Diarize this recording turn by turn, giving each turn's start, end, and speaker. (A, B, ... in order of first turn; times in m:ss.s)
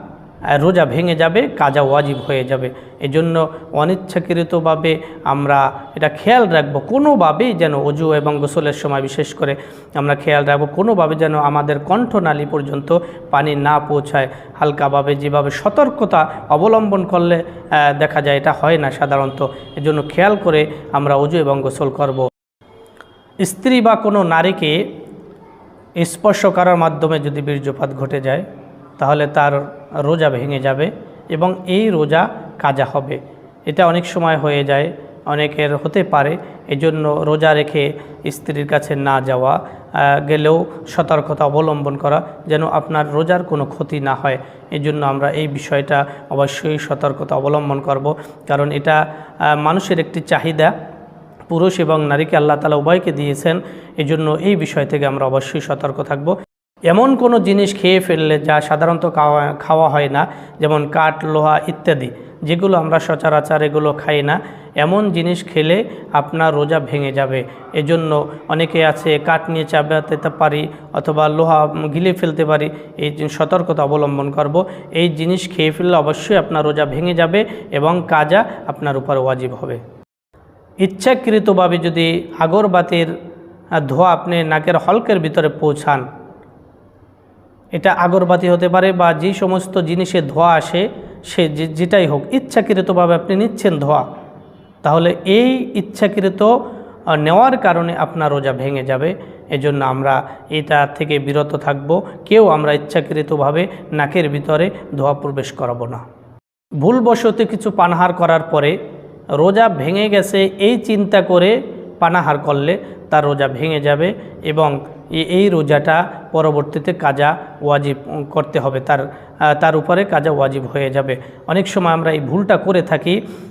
0:00.5-0:22.3 A
0:23.4-0:24.8 A
0:26.0-0:28.4 A
0:29.0-0:50.7 A
0:51.5-0:56.4 A
0:56.9-1:19.8 A
1:20.8-1:23.1 A
1:23.8-1:26.0 A
1:27.8-1:34.1 A
1:34.8-1:36.6 A
1:37.1-1:46.0 A
1:46.8-1:48.8 A
1:49.4-2:03.2 A